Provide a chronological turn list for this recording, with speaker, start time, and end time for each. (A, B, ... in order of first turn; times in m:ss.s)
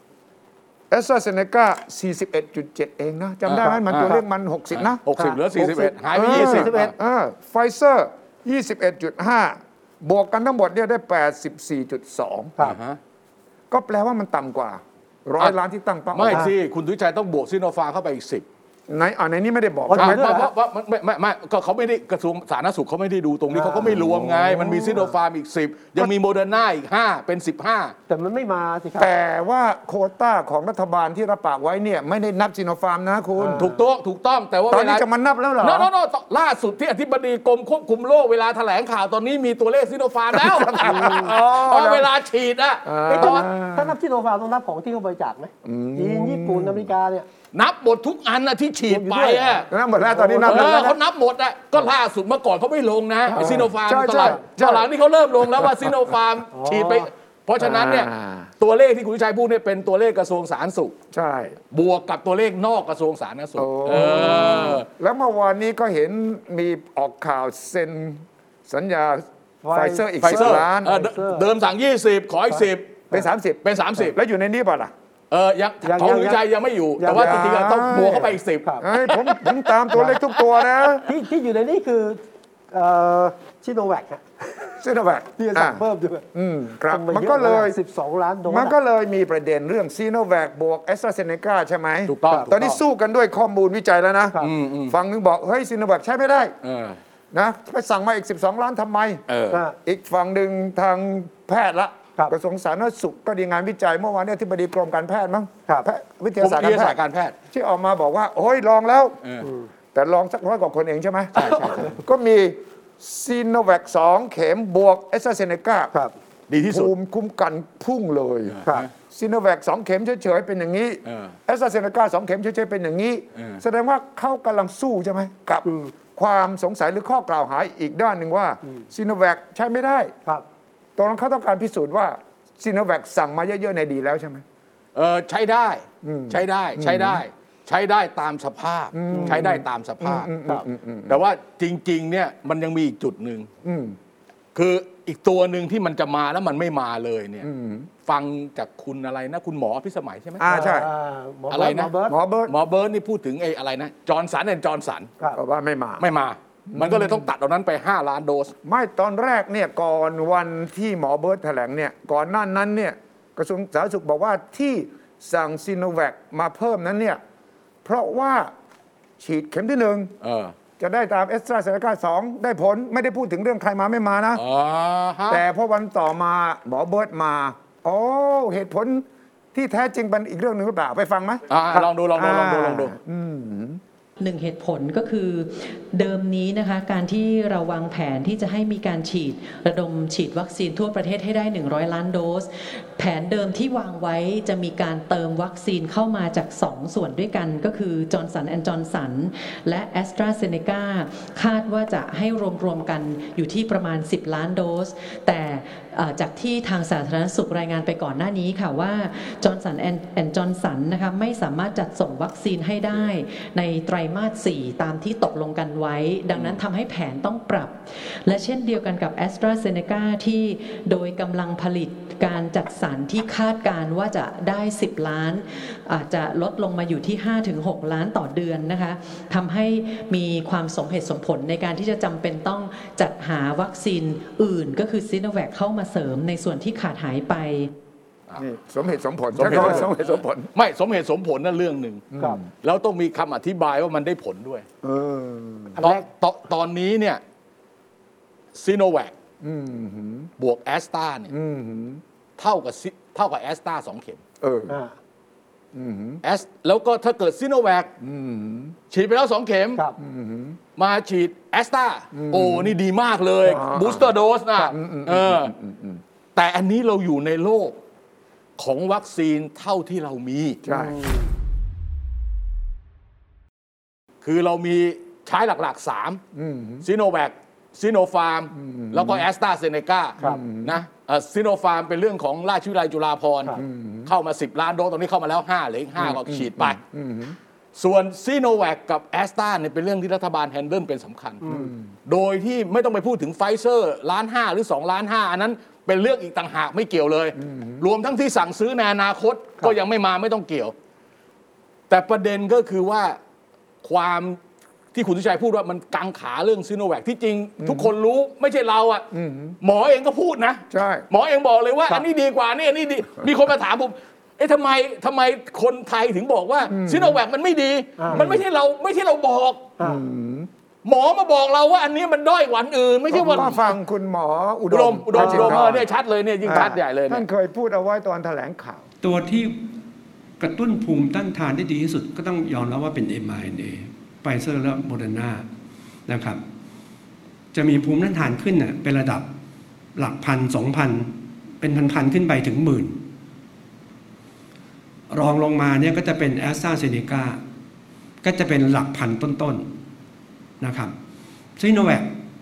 0:00.9-0:05.0 A
0:03.4-0:04.1 B
0:03.6-0:04.2 C
0:04.7-0:06.9 B
0:05.2-0:06.9 C
0:06.1-0:12.5 A
0:12.6-0:13.0 B
0:13.7-0:16.5 A
0:16.1-0:18.4 B
0:18.9-0:20.3 A
0:19.9-0:20.5 C
0:19.9-0:27.9 B
0:23.5-0:25.1 C
0:24.0-0:24.4 A
0:28.1-0:29.1 C
0:29.0-0:33.7 A
0:33.4-0:33.7 C
0:33.6-0:35.0 B
0:34.7-0:35.9 A
0:35.6-0:43.5 B
0:40.3-0:42.1 A
0:40.8-0:41.4 C
0:42.8-0:43.9 A
0:43.1-0:47.3 C
0:45.6-0:46.9 A
0:47.5-0:49.6 B
0:48.9-0:51.0 C
0:49.7-0:50.9 A
0:50.4-1:01.0 B
0:53.3-0:54.9 A
0:53.3-0:54.4 C
0:55.4-0:55.9 A
0:56.5-0:57.1 C
0:57.6-0:58.5 A
1:01.1-1:01.6 A
1:01.7-1:04.8 B
1:03.6-1:10.9 A
1:03.9-1:04.7 C
1:09.6-1:11.4 C
1:10.2-1:13.1 B
1:13.1-1:14.9 A
1:13.6-1:14.2 B
1:15.3-1:19.5 B
1:15.8-1:16.4 C
1:17.0-1:17.6 C
1:17.1-1:21.1 A
1:19.9-1:20.2 C
1:21.0-1:24.7 C
1:24.8-1:25.8 A
1:25.4-1:26.2 C
1:26.3-1:27.8 A
1:26.9-1:28.8 C
1:28.5-1:36.5 A
1:32.1-1:32.8 B
1:32.3-1:32.5 C
1:34.4-1:34.9 B
1:36.6-1:37.0 B
1:37.3-1:39.2 A
1:39.3-1:39.6 B
1:39.8-1:47.0 A
1:46.4-1:47.3 B
1:47.5-1:49.2 A
1:49.9-1:55.9 A
1:51.4-1:51.9 B
1:51.5-1:51.9 C
1:56.5-1:56.9 B
1:56.7-2:10.1 A
1:58.5-1:58.9 B
2:01.0-2:01.4 B
2:03.3-2:03.6 B
2:05.6-2:05.9 C
2:11.0-2:14.4 A
2:14.9-2:20.3 B
2:16.0-2:17.2 A
2:18.9-2:21.2 A
2:19.1-2:19.5 C
2:21.1-2:23.5 B
2:23.6-2:24.0 A
2:24.5-2:27.5 B
2:27.4-2:27.9 A
2:28.0-2:30.4 B
2:30.4-2:30.9 A
2:30.5-2:32.2 C
2:31.5-2:31.9 B
2:32.1-2:32.5 A
2:32.5-2:35.1 B
2:35.3-2:36.0 A
2:36.0-2:38.5 B
2:36.7-2:37.3 A
2:38.6-2:47.2 A
2:47.8-2:48.5 A
2:49.2-2:50.1 A
2:50.2-2:50.5 B
2:50.8-2:54.4 A
2:54.3-2:55.4 B
2:55.3-3:03.8 A
3:01.5-3:02.9 B
3:04.2-3:57.7 D
3:58.4-4:00.5 A
3:59.3-4:02.1 B
4:02.1-4:02.4 A
4:02.6-4:04.6 B
4:04.8-4:05.8 A
4:05.8-4:06.0 C
4:05.8-4:07.2 B
4:08.5-4:09.1 B
4:09.4-4:10.3 A
4:10.4-4:11.3 B
4:11.3-4:12.0 A
4:12.4-4:14.2 B
4:14.4-4:14.7 A
4:14.7-4:15.0 C
4:15.7-4:16.2 A
4:16.2-4:17.9 B
4:18.0-4:18.8 A
4:18.9-4:19.8 B
4:20.0-4:20.6 A
4:20.8-4:25.5 B
4:22.1-4:22.7 A
4:23.5-4:26.0 A
4:26.4-4:27.8 B
4:28.6-4:30.6 B
4:30.6-4:31.0 A
4:30.7-4:31.3 C
4:34.2-4:36.2 B
4:36.3-4:36.8 A
4:36.8-4:46.8 B
4:38.5-4:39.2 A
4:40.2-4:40.7 A
4:43.6-4:44.1 A
4:46.0-4:47.4 A
4:47.8-4:51.4 B
4:51.4-4:51.7 C
4:51.5-4:51.9 A
4:52.0-5:00.7 B
4:57.4-4:57.8 A
5:01.9-5:03.2 B
5:03.8-5:04.4 B
5:04.9-5:09.1 B
5:07.6-5:07.9 A
5:09.1-5:09.6 A
5:09.6-5:19.7 B
5:10.7-5:11.0 A
5:16.7-5:17.2 A
5:18.0-5:18.3 C
5:19.8-5:20.5 A
5:20.8-5:23.6 B
5:23.1-5:25.8 A
5:24.7-5:27.2 B
5:25.1-5:25.7 C
5:26.4-5:28.8 A
5:29.0-5:29.6 E
5:30.4-5:35.4 E
5:36.1-5:36.4 E
5:37.5-5:39.3 E
5:39.9-5:43.0 E
5:45.1-5:47.4 E
5:48.2-5:49.7 E
5:50.6-5:50.9 E
5:51.6-5:52.1 E